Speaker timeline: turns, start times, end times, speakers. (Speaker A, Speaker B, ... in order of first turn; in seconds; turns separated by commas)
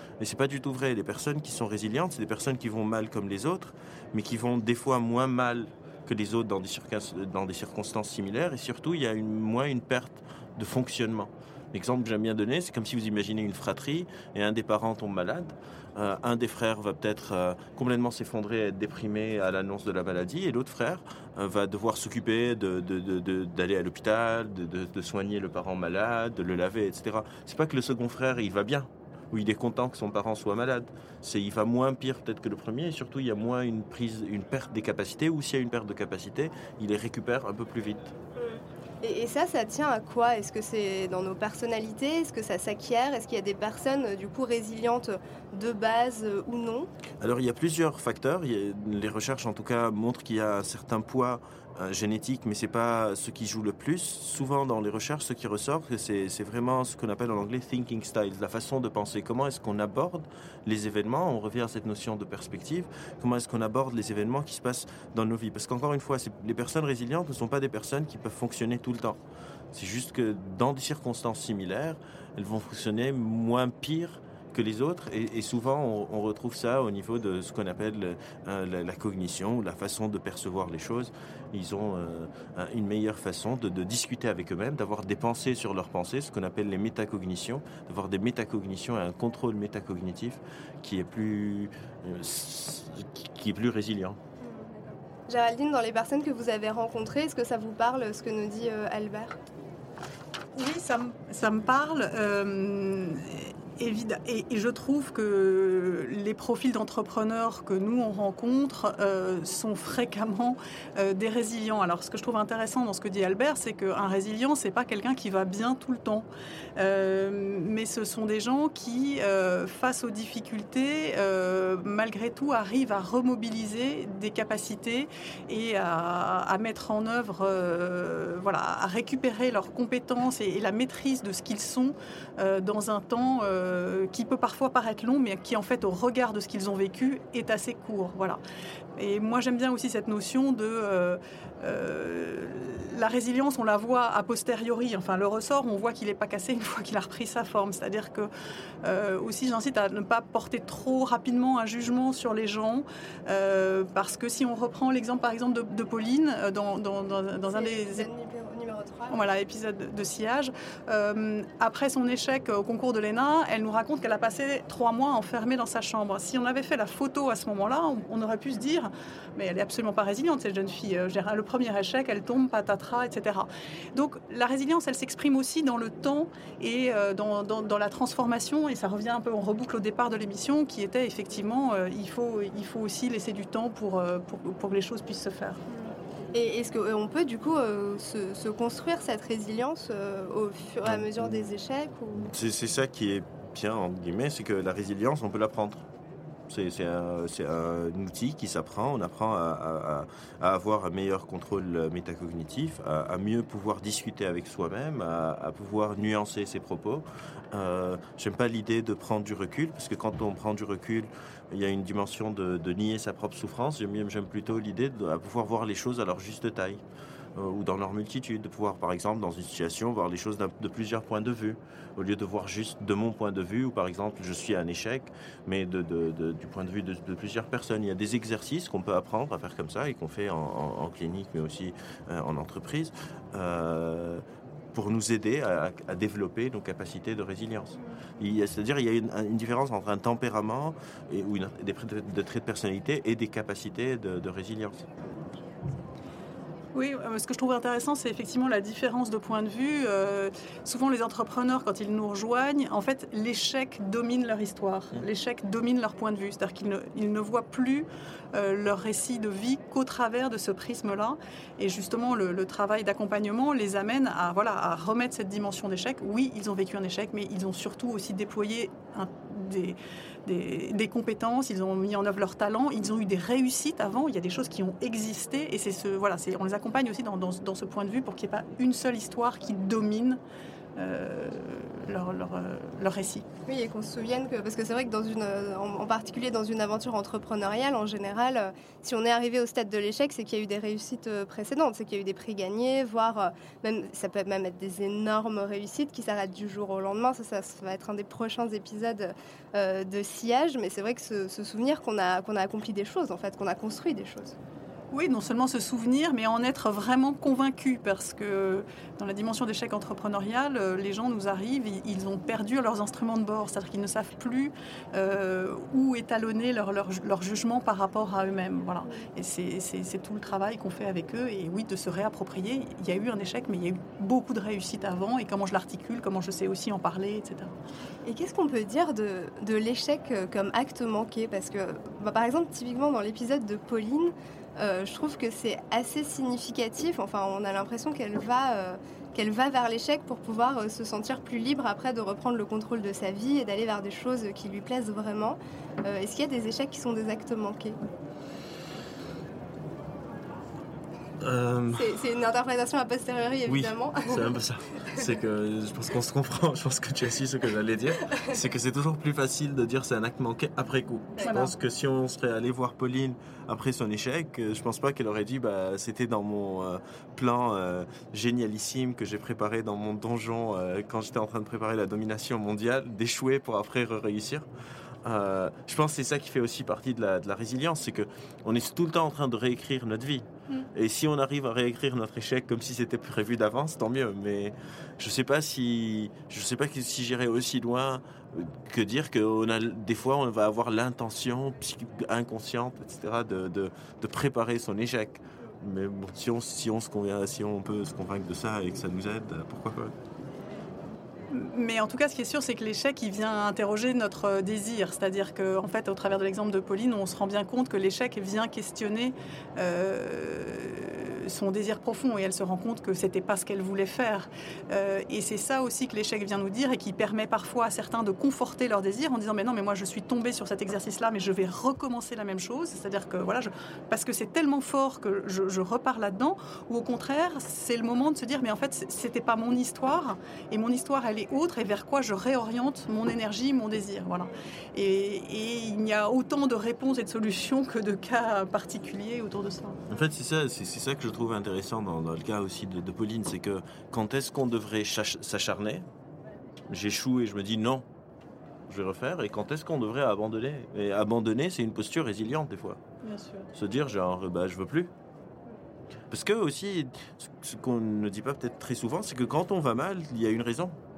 Speaker A: 0.2-38.1, Speaker B: 38.4-46.9, Speaker A: 47.2-69.2, Speaker A: 69.7-94.2, Speaker B: 94.4-99.4, Speaker C: 100.5-138.4, Speaker C: 139.0-148.3, Speaker C: 148.8-158.1, Speaker B: 157.5-159.2, Speaker C: 159.1-185.6, Speaker B: 185.7-192.3, Speaker A: 190.8-191.5, Speaker A: 192.2-195.8, Speaker A: 196.5-216.8, Speaker A: 217.3-244.9, Speaker C: 246.7-280.2, Speaker C: 280.8-283.2, Speaker B: 283.5-304.4, Speaker C: 304.9-327.5, Speaker B: 328.0-347.8, Speaker A: 351.2-352.0, Speaker B: 351.7-354.3, Speaker A: 353.5-374.5, Speaker C: 361.2-361.5, Speaker A: 375.0-399.9, Speaker C: 401.3-439.8, Speaker A: 439.9-445.8, Speaker A: 446.7-447.9, Speaker A: 448.7-452.8, Speaker C: 453.0-453.5, Speaker A: 453.5-454.9, Speaker A: 456.1-460.8